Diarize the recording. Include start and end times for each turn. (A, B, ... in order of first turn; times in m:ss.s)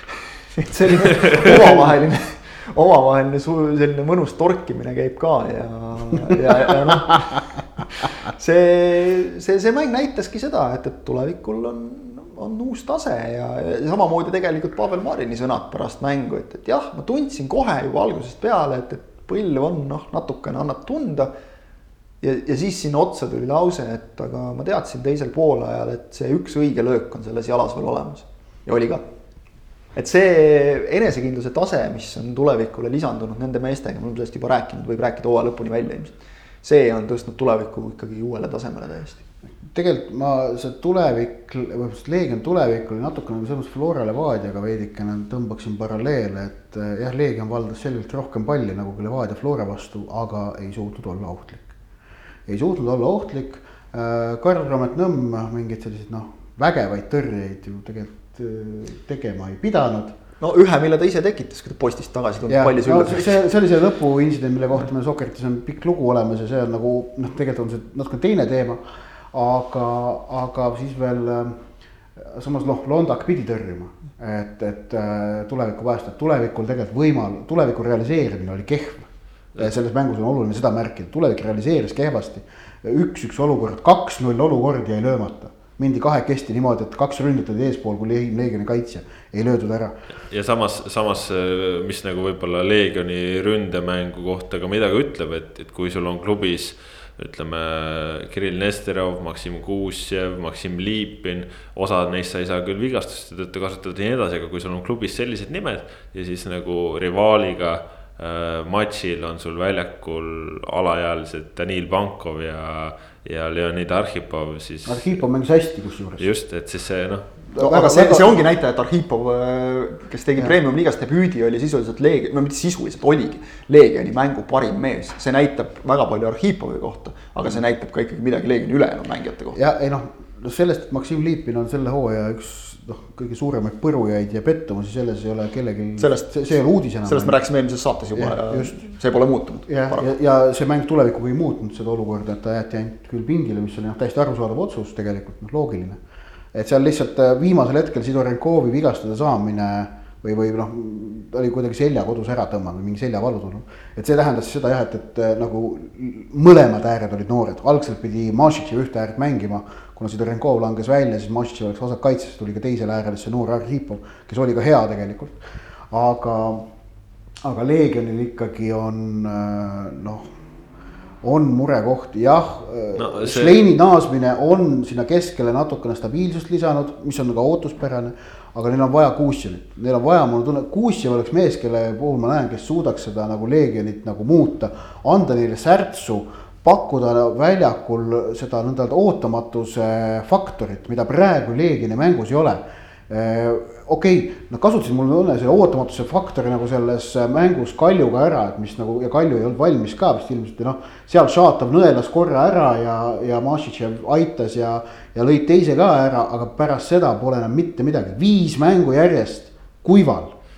0:00.4-0:21.3 A
0:01.2-0:01.5 B
0:22.2-0:29.0 A
0:30.0-0:39.2 A
0:39.6-0:51.7 C
0:52.5-1:00.2 C
1:00.4-1:03.4 A
1:02.5-1:11.6 C
1:12.2-1:29.9 C
1:30.3-1:55.2 B
1:54.9-1:56.3 C
1:56.2-1:57.2 B
1:57.5-1:58.4 C
1:57.6-2:09.6 A
2:09.5-2:17.4 C
2:16.0-2:20.1 A
2:18.2-2:18.8 C
2:19.7-2:26.0 C
2:26.5-2:45.4 C
2:45.9-2:46.7 C
2:47.4-2:50.3 C
2:51.2-3:30.3 C
2:53.0-2:53.6 B